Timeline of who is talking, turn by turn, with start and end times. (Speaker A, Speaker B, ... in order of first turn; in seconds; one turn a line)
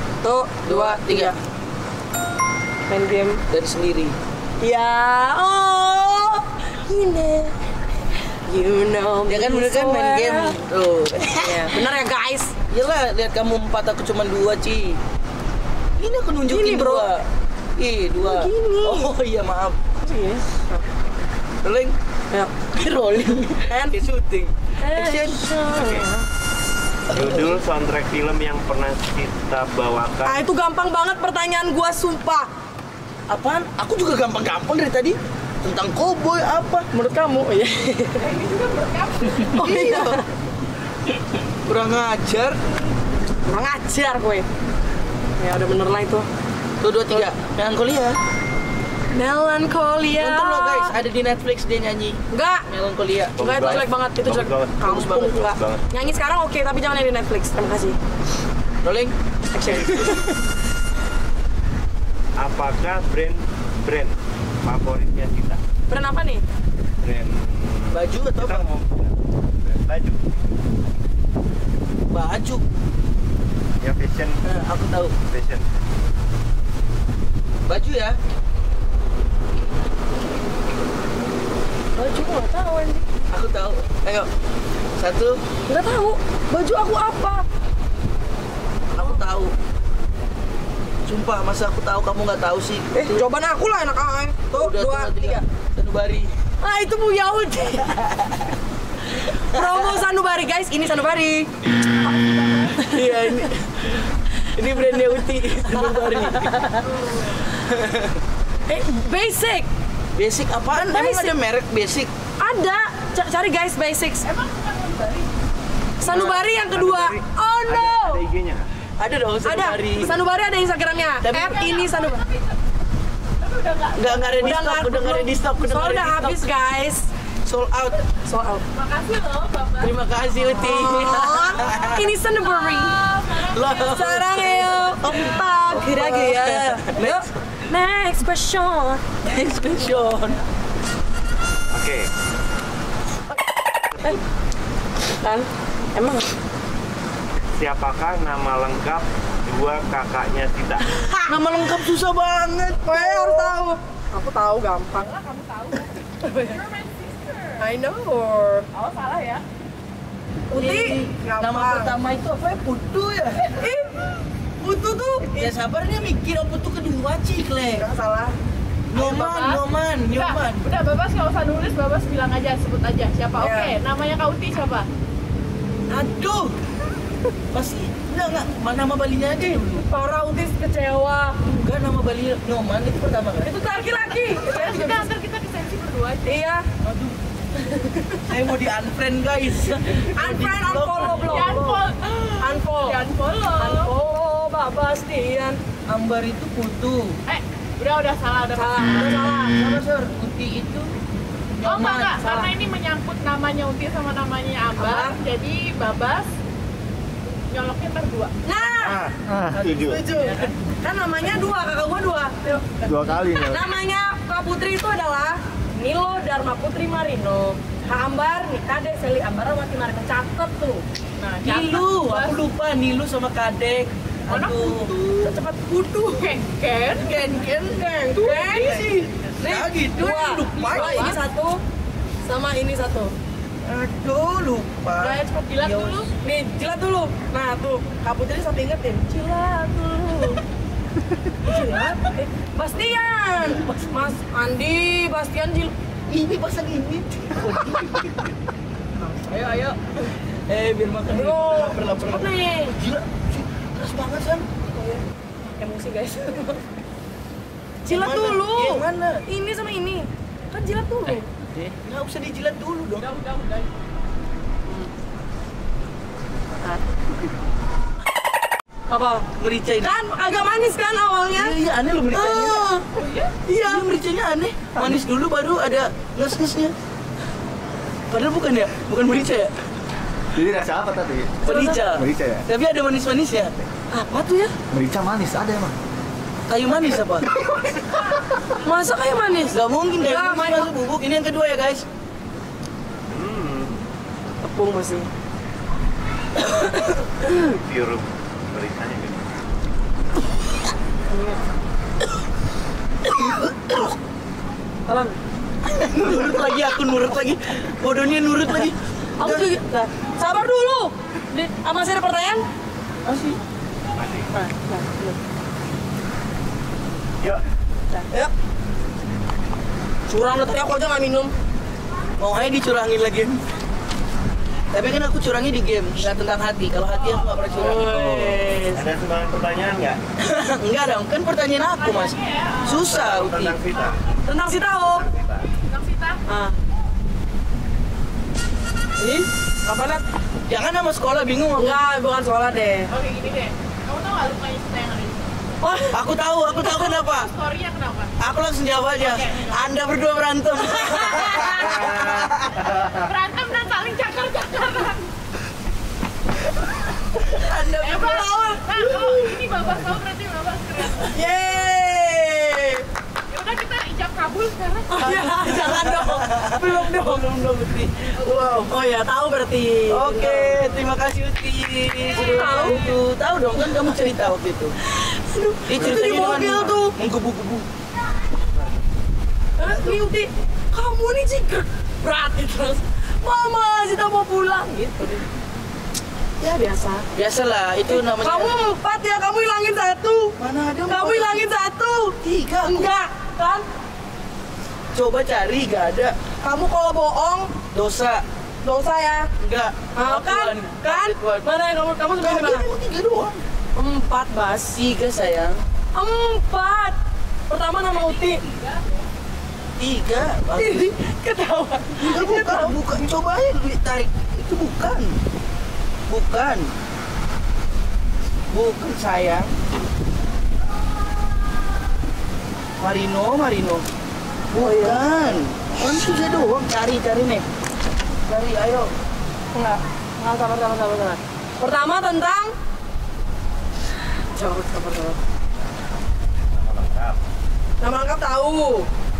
Speaker A: 0.2-1.4
Speaker B: 0.6-1.4
Speaker A: 2.9-3.4
Speaker B: 3.5-4.2
Speaker A: 4.6-7.6
Speaker A: 8.5-10.6
Speaker B: 9.3-11.7
Speaker A: 11.2-12.5
Speaker B: 12.7-15.0
Speaker B: 16.0-19.8
Speaker A: 16.4-17.1
Speaker A: 18.2-19.1
Speaker A: 20.0-20.8
Speaker B: 21.6-21.9
Speaker B: 22.7-25.5
Speaker A: 24.8-26.2
Speaker C: 25.7-26.1
Speaker C: 27.1-30.4
Speaker B: 27.1-27.5
Speaker A: 30.2-32.5
Speaker B: 33.3-36.9
Speaker A: 36.9-38.3
Speaker D: 38.2-39.6
Speaker A: 39.5-40.2
Speaker B: 39.5-40.2
Speaker B: 41.6-42.6
Speaker A: 43.5-44.5
Speaker A: 45.4-46.2
Speaker B: 46.8-48.2
Speaker A: 49.1-50.9
Speaker B: 50.1-53.4
Speaker A: 52.3-52.7
Speaker C: 53.4-56.1
Speaker A: 53.4-58.0
Speaker B: 54.9-55.5
Speaker B: 58.8-59.1
Speaker A: 59.5-60.2
Speaker C: 59.7-60.1
Speaker B: 59.8-60.2
Speaker C: 62.4-65.6
Speaker A: 65.9-66.4
Speaker C: 67.0-70.3
Speaker B: 67.9-68.7
Speaker B: 72.1-72.6
Speaker C: 73.8-74.4
Speaker B: 74.4-75.1
Speaker C: 75.2-75.6
Speaker B: 77.7-78.2
Speaker A: 82.0-83.0
Speaker B: 83.3-84.3
Speaker B: 85.0-85.4
Speaker A: 85.7-87.4
Speaker B: 88.9-89.5
Speaker B: 91.1-93.2
Speaker A: 92.9-95.4
Speaker B: 94.5-96.3
Speaker A: 96.6-98.0
Speaker B: 98.1-98.5
Speaker A: 99.2-103.2
Speaker B: 99.5-100.0
Speaker D: 102.2-102.6
Speaker B: 102.8-106.5
Speaker A: 105.7-106.8
Speaker D: 106.8-107.4
Speaker B: 107.6-108.2
Speaker A: 108.7-109.7
Speaker B: 110.1-112.1
Speaker A: 110.8-111.3
Speaker A: 112.4-114.3
Speaker D: 114.2-115.4
Speaker A: 116.0-118.2
Speaker C: 116.0-118.7
Speaker B: 119.0-120.1
Speaker A: 119.4-122.2
Speaker D: 121.2-122.6
Speaker D: 123.4-124.5
Speaker B: 124.0-126.4
Speaker A: 124.4-127.1
Speaker B: 127.4-128.0
Speaker A: 128.2-128.6
Speaker D: 128.7-130.0
Speaker B: 129.8-132.0
Speaker A: 130.5-133.0
Speaker D: 132.3-134.2
Speaker B: 133.5-137.3
Speaker A: 133.8-139.0
Speaker B: 139.2-140.4
Speaker C: 141.7-142.1
Speaker A: 145.2-146.2
Speaker C: 147.6-150.9
Speaker A: 150.9-151.3
Speaker B: 151.3-153.6
Speaker A: 152.8-155.1
Speaker D: 154.9-157.7
Speaker A: 156.2-156.6
Speaker A: 157.6-158.7
Speaker D: 158.7-159.4
Speaker B: 160.5-163.5
Speaker A: 160.5-161.9
Speaker A: 163.5-165.5
Speaker B: 165.3-167.8
Speaker A: 167.7-168.3
Speaker B: 168.9-170.7
Speaker D: 168.9-174.9
Speaker A: 173.4-173.7
Speaker B: 175.9-176.6
Speaker B: 177.5-179.8
Speaker A: 179.7-181.3
Speaker B: 181.4-183.5
Speaker A: 183.4-185.1
Speaker D: 184.3-186.4
Speaker A: 186.2-186.6
Speaker B: 186.8-187.2
Speaker A: 187.6-188.2
Speaker B: 188.3-191.7
Speaker A: 190.1-191.9
Speaker D: 191.2-193.9
Speaker A: 192.4-193.0
Speaker A: 193.6-195.6
Speaker B: 195.9-197.2
Speaker D: 197.3-199.1
Speaker A: 198.5-199.6
Speaker B: 199.4-200.9
Speaker B: 201.6-202.2
Speaker D: 201.6-206.3
Speaker A: 202.2-202.5
Speaker A: 204.8-205.2
Speaker D: 207.5-208.3
Speaker A: 208.4-209.0
Speaker E: 208.8-210.0
Speaker B: 209.5-210.5
Speaker A: 210.1-220.8
Speaker E: 212.8-213.6
Speaker D: 221.2-222.4
Speaker B: 221.4-224.9
Speaker D: 224.3-225.3
Speaker A: 225.2-226.3
Speaker D: 226.1-227.4
Speaker A: 227.4-231.6
Speaker D: 228.1-229.1
Speaker B: 228.5-231.2
Speaker D: 230.6-231.2
Speaker A: 232.2-233.1
Speaker B: 233.7-236.1
Speaker D: 235.0-236.1
Speaker A: 236.2-240.4
Speaker A: 241.4-245.7
Speaker B: 246.1-248.2
Speaker D: 249.3-249.7
Speaker B: 250.5-254.5
Speaker A: 251.1-252.8
Speaker A: 254.6-256.6
Speaker A: 257.8-261.3
Speaker B: 257.9-259.2
Speaker B: 261.6-263.1
Speaker D: 263.0-263.7
Speaker A: 264.6-264.9
Speaker A: 268.9-269.2
Speaker B: 269.4-269.9
Speaker A: 269.8-271.6
Speaker B: 271.3-272.9
Speaker A: 272.1-272.7
Speaker D: 272.9-273.4
Speaker B: 273.5-276.7
Speaker A: 273.5-273.9
Speaker B: 278.1-279.5
Speaker E: 280.3-282.4
Speaker B: 281.4-283.5
Speaker A: 281.4-281.8
Speaker A: 283.9-284.5
Speaker E: 284.7-285.8
Speaker B: 286.5-287.3
Speaker A: 288.6-290.7
Speaker B: 289.5-291.8
Speaker C: 293.1-293.9
Speaker A: 294.4-295.1
Speaker C: 297.3-299.3
Speaker A: 301.1-301.4
Speaker B: 303.0-303.9
Speaker A: 304.9-305.1
Speaker B: 305.6-309.5
Speaker A: 309.2-312.4
Speaker B: 313.0-313.4
Speaker C: 313.9-314.3
Speaker A: 314.3-315.2
Speaker A: 317.9-318.3
Speaker A: 320.1-321.3
Speaker B: 322.2-323.4
Speaker B: 324.7-327.9
Speaker D: 326.9-327.5
Speaker A: 327.5-328.8
Speaker C: 328.7-330.0
Speaker B: 330.2-333.6
Speaker D: 331.8-333.2
Speaker C: 332.7-334.0
Speaker D: 333.7-334.2
Speaker A: 334.2-335.1
Speaker C: 334.7-335.5
Speaker D: 335.5-336.2
Speaker A: 336.3-336.5
Speaker A: 339.0-340.0
Speaker B: 340.5-341.8
Speaker A: 341.6-342.9
Speaker D: 342.9-345.3
Speaker A: 345.6-346.0
Speaker B: 345.9-347.3
Speaker D: 346.6-348.1
Speaker B: 348.2-352.5
Speaker D: 348.9-349.6
Speaker D: 351.2-351.8
Speaker D: 352.7-355.1
Speaker B: 357.2-359.2
Speaker D: 357.8-361.2
Speaker A: 358.1-358.5
Speaker A: 361.0-362.8
Speaker D: 363.3-365.1
Speaker A: 364.9-367.3
Speaker B: 365.0-368.7
Speaker D: 368.2-368.4
Speaker A: 368.6-370.6
Speaker B: 369.9-374.8
Speaker D: 372.1-373.0
Speaker A: 372.1-372.9
Speaker A: 374.8-376.9
Speaker B: 375.7-377.7
Speaker C: 375.8-376.6
Speaker A: 379.6-385.2
Speaker A: 386.4-387.1
Speaker B: 387.1-388.5
Speaker A: 387.9-390.3
Speaker B: 390.4-391.5
Speaker A: 390.9-392.2
Speaker B: 392.1-392.9
Speaker A: 392.7-393.6
Speaker B: 394.9-396.1
Speaker A: 396.4-397.5
Speaker B: 397.7-398.2
Speaker A: 398.6-399.3
Speaker B: 399.4-401.4
Speaker A: 399.9-402.7
Speaker B: 402.2-403.4
Speaker A: 403.8-404.8
Speaker B: 404.7-405.6
Speaker A: 405.9-407.0
Speaker A: 407.5-408.4
Speaker D: 407.9-409.1
Speaker B: 409.8-410.9
Speaker A: 410.5-412.8
Speaker B: 412.0-415.1
Speaker B: 416.1-416.7
Speaker B: 418.5-419.5
Speaker B: 422.8-423.9
Speaker B: 424.5-427.4
Speaker A: 424.6-425.0
Speaker B: 428.3-428.9
Speaker A: 429.5-432.5
Speaker A: 434.3-435.2
Speaker C: 436.5-437.2
Speaker A: 437.8-438.9